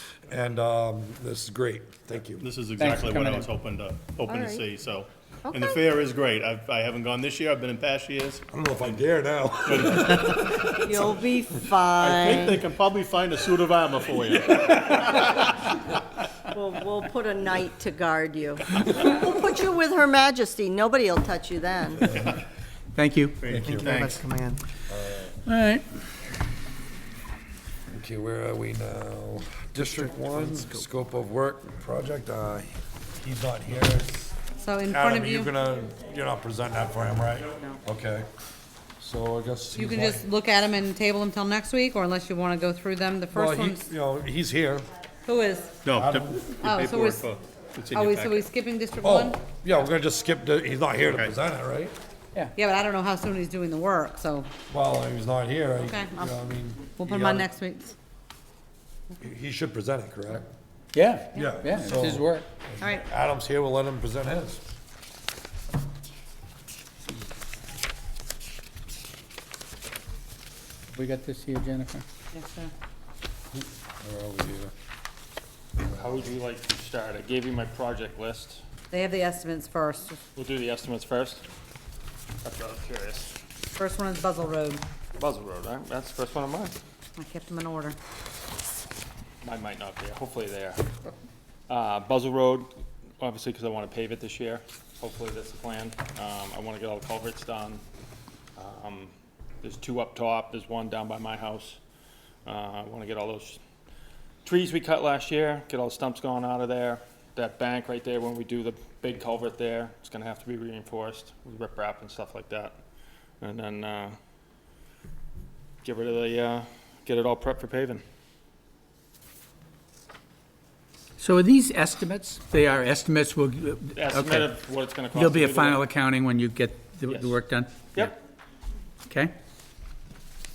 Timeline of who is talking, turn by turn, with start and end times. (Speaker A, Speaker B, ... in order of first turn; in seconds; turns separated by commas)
Speaker A: 0.3-2.5, Speaker B: 2.4-8.4, Speaker C: 2.8-3.5, Speaker D: 4.3-4.7, Speaker D: 5.5-5.8, Speaker A: 8.5-10.5, Speaker B: 9.7-10.5, Speaker D: 10.5-12.6, Speaker B: 12.0-15.5, Speaker D: 16.5-22.1, Speaker A: 22.0-22.4, Speaker C: 22.9-23.5, Speaker B: 23.4-24.2, Speaker E: 23.5-24.6, Speaker A: 23.6-23.9, Speaker A: 24.9-25.4, Speaker C: 25.5-25.8, Speaker A: 27.9-34.3, Speaker E: 29.8-30.8, Speaker F: 34.6-35.5, Speaker A: 34.9-38.3, Speaker A: 39.0-40.3, Speaker F: 39.8-43.8, Speaker A: 43.3-44.9, Speaker F: 45.3-45.7, Speaker B: 45.8-48.5, Speaker A: 46.0-46.5, Speaker F: 46.6-47.2, Speaker F: 47.9-49.4, Speaker A: 49.0-52.0, Speaker B: 51.1-51.3, Speaker F: 52.5-54.5, Speaker A: 54.7-57.5, Speaker F: 55.8-56.3, Speaker F: 57.0-57.9, Speaker A: 59.2-60.5, Speaker C: 61.0-62.5, Speaker A: 61.3-64.6, Speaker C: 70.9-72.0, Speaker F: 72.3-72.7, Speaker A: 73.5-74.7, Speaker G: 75.9-78.6, Speaker F: 78.9-80.2, Speaker G: 80.4-81.4, Speaker G: 82.4-83.3, Speaker F: 83.8-84.8, Speaker G: 85.2-86.7, Speaker F: 87.2-88.0, Speaker G: 89.4-90.8, Speaker G: 91.7-97.8, Speaker G: 98.6-101.8, Speaker G: 102.5-103.6, Speaker G: 104.4-112.8, Speaker G: 113.4-114.2, Speaker G: 115.8-118.0, Speaker C: 121.2-124.5, Speaker G: 124.0-125.8, Speaker C: 125.1-128.1, Speaker G: 127.1-127.4, Speaker C: 129.1-129.3